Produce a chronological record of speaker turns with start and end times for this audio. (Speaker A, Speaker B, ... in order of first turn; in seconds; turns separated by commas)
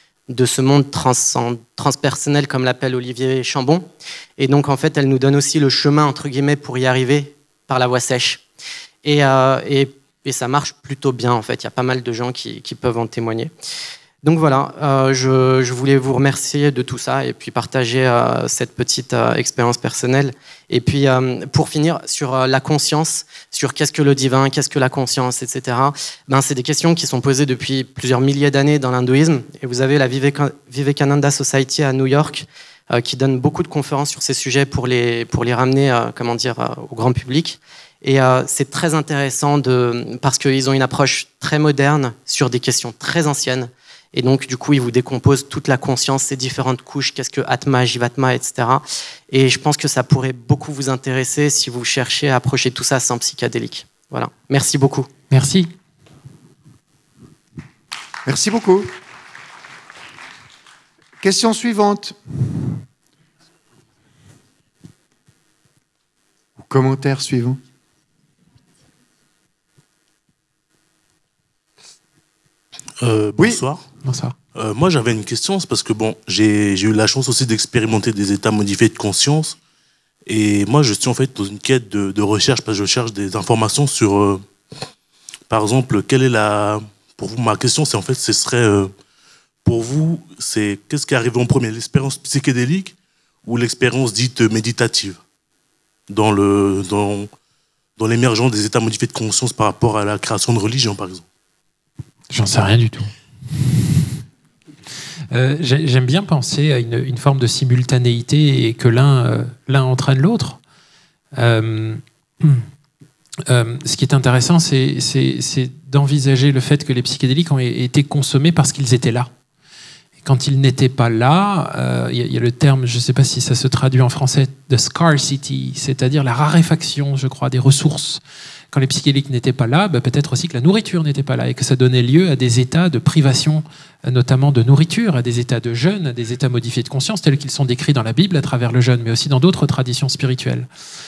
Speaker A: 0.3-8.4, Speaker A: 9.0-13.5, Speaker A: 14.2-55.1, Speaker B: 55.3-55.7, Speaker C: 58.2-58.9, Speaker C: 61.2-62.2, Speaker C: 66.6-67.6, Speaker D: 73.0-73.8, Speaker B: 74.0-74.3, Speaker D: 74.5-79.6, Speaker D: 80.2-84.4, Speaker D: 85.5-88.9, Speaker D: 89.6-95.2, Speaker D: 96.1-97.3, Speaker D: 98.0-101.2, Speaker B: 102.3-104.2, Speaker B: 105.3-110.6, Speaker B: 111.3-112.7, Speaker B: 113.5-119.3, Speaker B: 120.2-140.7